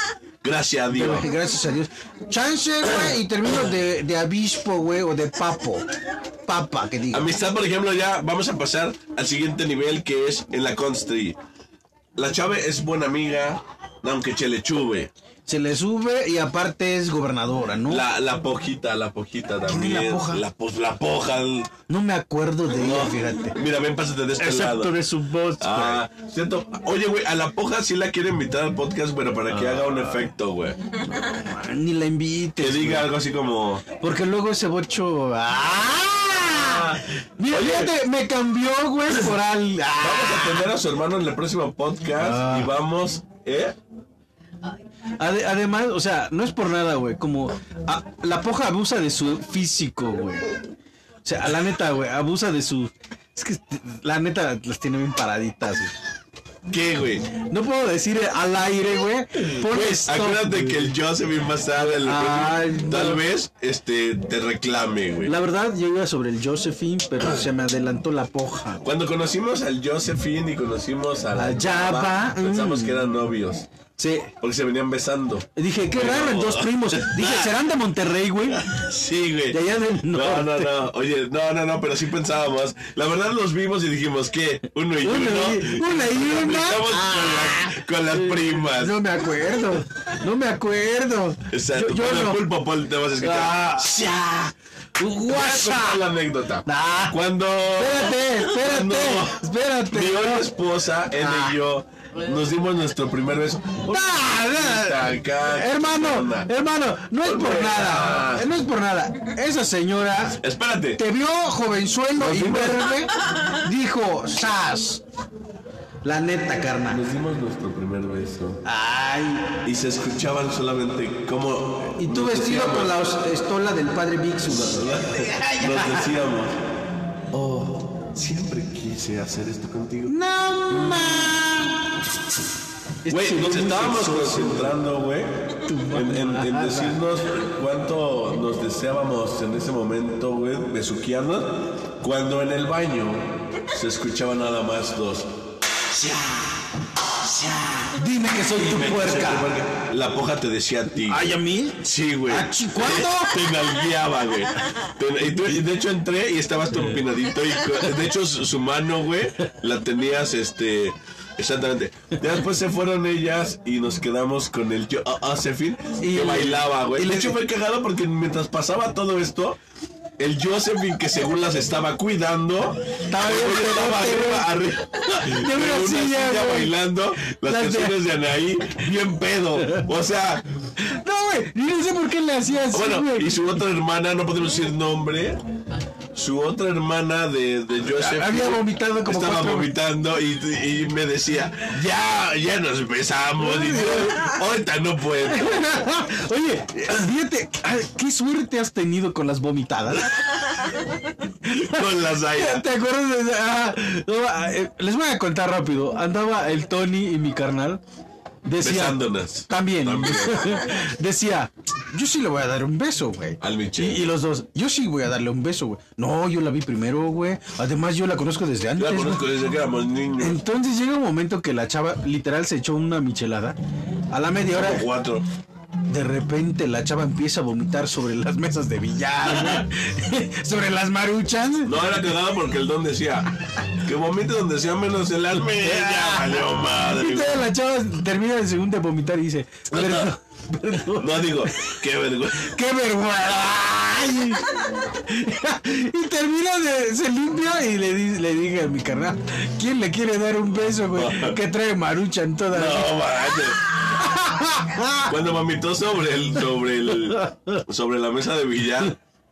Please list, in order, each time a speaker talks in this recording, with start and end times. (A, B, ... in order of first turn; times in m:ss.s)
0:00.4-0:01.3 A
0:00.9-0:05.8 B
0:06.5-0:07.3 B
0:07.1-0:11.4 A
0:12.2-0:15.1 A
0:15.5-0:18.1 B
0:17.9-0:21.7 A
0:19.6-0:20.4 B
0:21.9-0:23.6 B
0:22.7-0:25.0 A
0:24.4-0:26.0 B
0:25.6-0:30.8 A
0:29.5-0:30.0 B
0:31.3-0:33.1 B
0:32.6-0:33.8 A
0:34.0-0:40.7 B
0:36.5-0:37.9 A
0:40.0-0:43.8 A
0:42.2-0:42.7 B
0:45.2-0:50.5 B
0:51.2-0:56.0 B
0:56.7-0:57.3 A
0:57.4-1:01.0 B
0:59.5-1:05.3 A
1:01.7-1:03.2 B
1:05.2-1:08.9 B
1:08.8-1:13.7 A
1:11.4-1:13.0 B
1:14.0-1:14.3 B
1:14.4-1:17.5 A
1:15.6-1:18.7 B
1:18.5-1:29.0 A
1:19.5-1:20.8 B
1:25.0-1:32.4 B
1:31.5-1:33.9 A
1:33.2-1:36.0 B
1:35.3-1:46.5 A
1:36.7-1:37.2 B
1:37.8-1:40.5 B
1:41.1-1:41.6 B
1:43.9-1:50.4 B
1:47.2-1:48.5 A
1:50.4-1:51.0 A
1:51.0-1:55.0 B
1:52.2-1:53.1 A
1:56.0-1:57.0 B
1:56.9-1:58.6 A
1:58.6-1:59.6 B
1:59.6-2:03.0 A
2:02.0-2:06.0 B
2:04.5-2:06.6 A
2:07.3-2:10.2 A
2:10.1-2:11.8 B
2:10.7-2:11.2 A
2:13.0-2:14.8 B
2:13.1-2:15.3 A
2:15.6-2:17.0 B
2:15.9-2:25.3 A
2:25.9-2:26.6 B
2:27.2-2:29.6 B
2:28.5-2:31.3 A
2:31.0-2:33.7 B
2:31.8-2:49.6 A
2:46.0-2:47.4 B
2:50.2-3:00.5 A
2:53.1-2:54.5 B
2:55.1-2:56.8 B
2:57.3-2:58.0 B
2:59.6-2:59.9 B
3:00.8-3:03.6 B
3:02.7-3:05.4 A
3:06.1-3:15.8 A
3:07.8-3:09.7 B
3:13.4-3:14.4 B
3:15.2-3:20.5 B
3:21.5-3:22.6 A
3:21.5-3:27.8 B
3:28.4-3:39.3 B
3:28.6-3:30.7 A
3:33.4-3:34.1 A
3:38.8-3:40.4 A
3:40.2-3:43.6 B
3:44.1-3:44.9 B
3:44.4-3:45.3 A
3:45.9-3:52.0 B
3:51.6-3:57.4 A
3:55.6-4:01.8 B
3:59.7-4:00.1 A
4:01.0-4:02.6 A
4:02.4-4:13.0 B
4:10.9-4:11.4 A
4:12.5-4:13.6 A
4:13.9-4:15.1 B
4:15.0-4:19.0 A
4:17.1-4:17.6 B